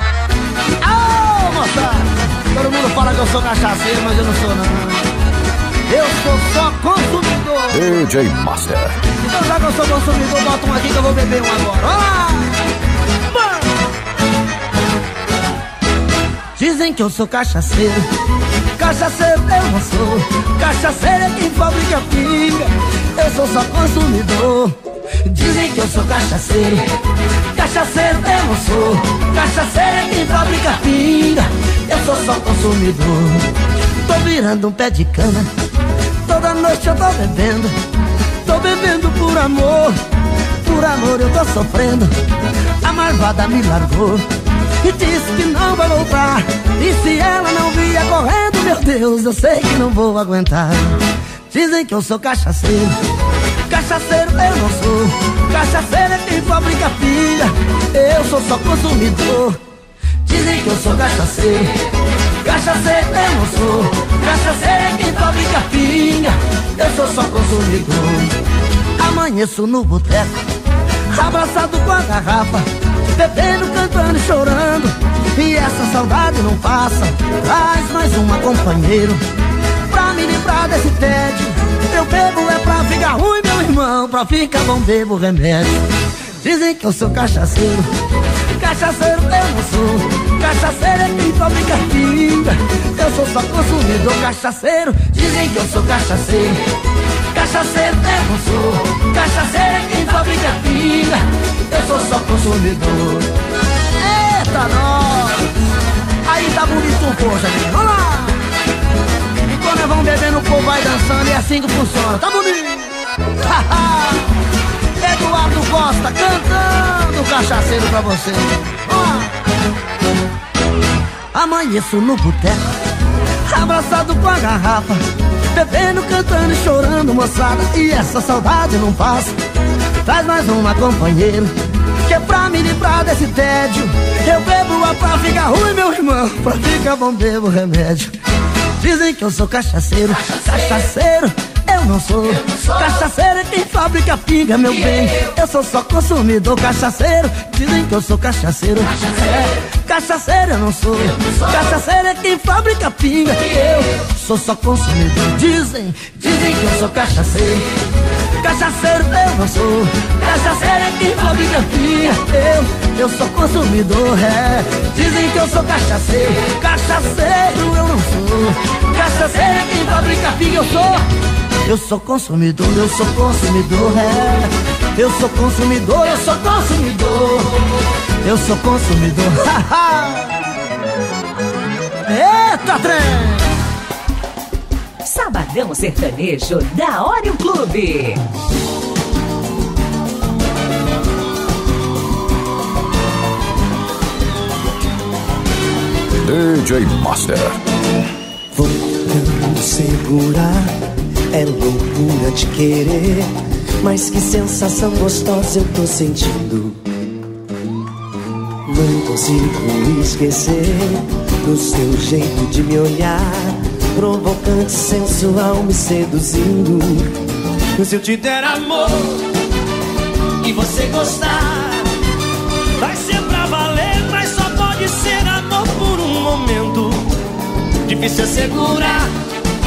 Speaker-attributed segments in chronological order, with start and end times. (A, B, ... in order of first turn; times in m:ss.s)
0:00.8-0:05.0 A
0:05.9-0:07.9 A
0:07.7-0:09.0 B
0:09.2-0:12.6 A
0:16.6-0:18.0 A
0:18.8-0:26.8 A
0:27.5-0:33.5 A
0:34.0-0:35.5 A
0:36.2-0:37.7 A
0:38.4-0:40.0 A
0:40.6-0:42.1 A
0:42.8-0:44.2 A
0:44.8-0:52.9 A
0:53.7-0:59.6 A
1:00.2-1:01.7 A
1:02.4-1:08.4 A
1:09.0-1:10.4 A
1:11.1-1:19.2 A
1:19.9-1:25.8 A
1:26.4-1:27.9 A
1:28.5-1:36.6 A
1:37.3-1:43.3 A
1:44.0-1:45.4 A
1:46.3-1:48.4 A
1:49.5-1:54.4 A
1:55.0-1:59.3 A
2:01.3-2:02.6 A
2:03.5-2:05.0 A
2:05.5-2:09.4 A
2:10.0-2:11.5 A
2:12.0-2:18.1 A
2:18.8-2:37.7 A
2:38.4-2:51.0 A
2:51.6-2:57.5 A
2:58.2-3:00.3 A
3:02.1-3:03.5 A
3:05.0-3:08.2 C
3:16.2-3:17.6 B
3:18.5-3:20.7 D
3:21.3-3:23.3 D
3:23.9-3:26.8 D
3:28.7-3:29.7 E
3:29.8-3:31.0 D
3:31.4-3:32.1 E
3:31.6-3:32.7 D
3:32.7-3:33.2 E
3:33.3-3:36.3 D
3:36.5-3:37.1 E
3:37.8-3:39.2 E
3:40.4-3:41.9 E
3:42.8-3:47.1 E
3:47.8-3:49.1 E